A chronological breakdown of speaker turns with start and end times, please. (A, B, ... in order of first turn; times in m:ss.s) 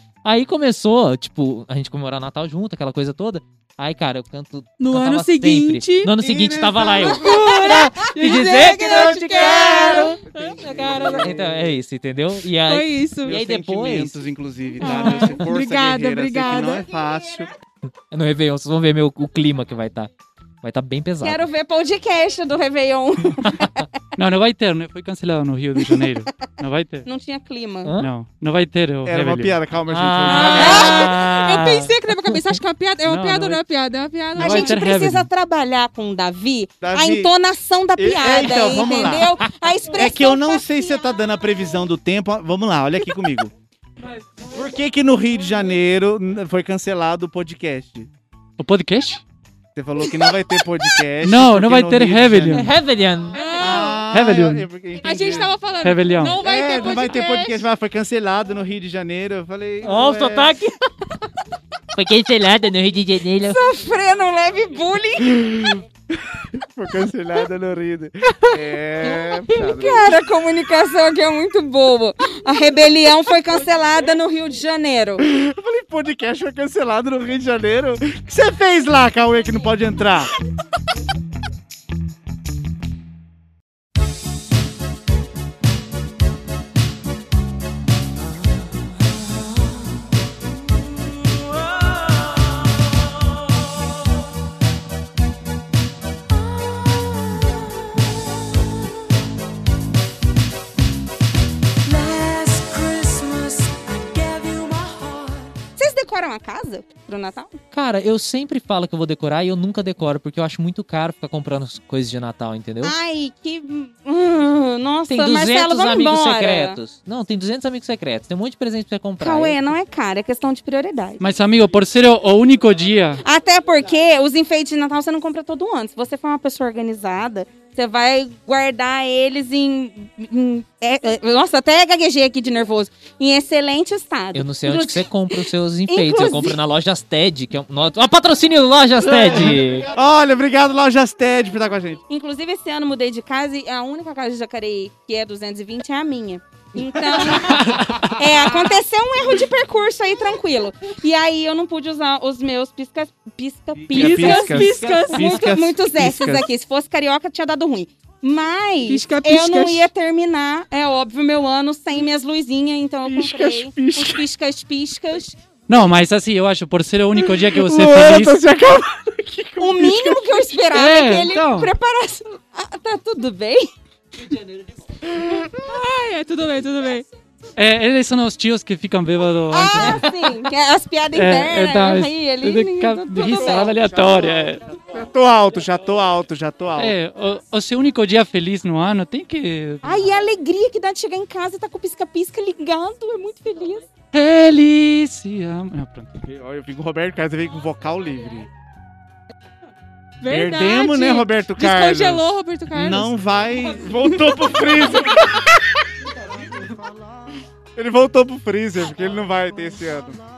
0:00.2-0:10.1 A
0:04.8-0:06.3 B
0:06.2-0:07.7 C
0:07.0-0:11.3 B
0:08.6-0:11.6 C
0:10.6-0:11.2 D
0:11.2-0:14.2 A
0:12.6-0:13.4 B
0:13.2-0:17.5 C
0:14.8-0:16.8 B
0:18.1-0:20.1 A
0:20.6-0:21.4 A
0:21.2-0:23.9 D
0:24.2-0:27.0 E
0:27.0-0:27.9 D
0:28.0-0:29.6 E
0:29.0-0:31.0 C
0:29.9-0:31.5 A
0:30.3-0:34.8 B
0:30.6-0:31.1 D
0:30.7-0:31.6 E
0:33.0-0:33.6 E
0:34.4-0:35.3 E
0:34.4-0:41.1 D
0:36.8-0:37.3 C
0:38.0-0:39.4 C
0:39.9-0:43.5 C
0:44.5-0:48.1 C
0:48.6-0:49.2 E
0:49.8-0:52.7 C
0:51.2-0:52.7 E
0:52.5-0:53.4 A
0:53.3-0:54.0 B
0:53.6-0:55.6 C
0:54.1-0:54.6 E
0:55.0-0:57.7 B
0:55.8-0:56.4 E
0:56.4-1:00.6 C
0:59.8-1:00.8 A
1:01.9-1:03.6 A
1:03.4-1:05.7 D
1:05.3-1:10.1 C
1:09.1-1:15.2 D
1:15.2-1:20.3 C
1:36.7-1:37.4 F
1:41.8-1:45.6 F
1:45.8-1:47.5 D
1:47.7-1:52.9 A
1:52.8-1:56.8 D
1:55.1-1:59.6 A
1:59.2-2:01.2 D
2:01.2-2:03.2 E
2:03.2-2:16.6 D
2:14.3-2:19.9 A
2:19.0-2:22.0 C
2:22.1-2:45.4 D
2:27.5-2:28.0 C
2:27.6-2:27.9 E
2:33.8-2:36.4 C
2:33.9-2:35.4 B
2:38.8-2:39.9 B
2:43.0-2:44.2 C
2:45.7-2:48.4 E
2:47.2-2:50.6 C
2:49.6-2:53.7 D
2:50.7-2:51.7 E
2:55.1-2:55.5 C
2:55.6-2:57.0 B
2:57.6-3:00.0 E
2:59.5-3:03.7 D
3:01.1-3:04.6 E
3:03.2-3:06.9 C
3:06.8-3:10.1 E
3:09.8-3:13.9 D
3:14.1-3:16.1 E
3:16.2-3:18.5 C
3:20.2-3:23.1 B
3:20.2-3:25.8 C
3:27.7-3:30.2 C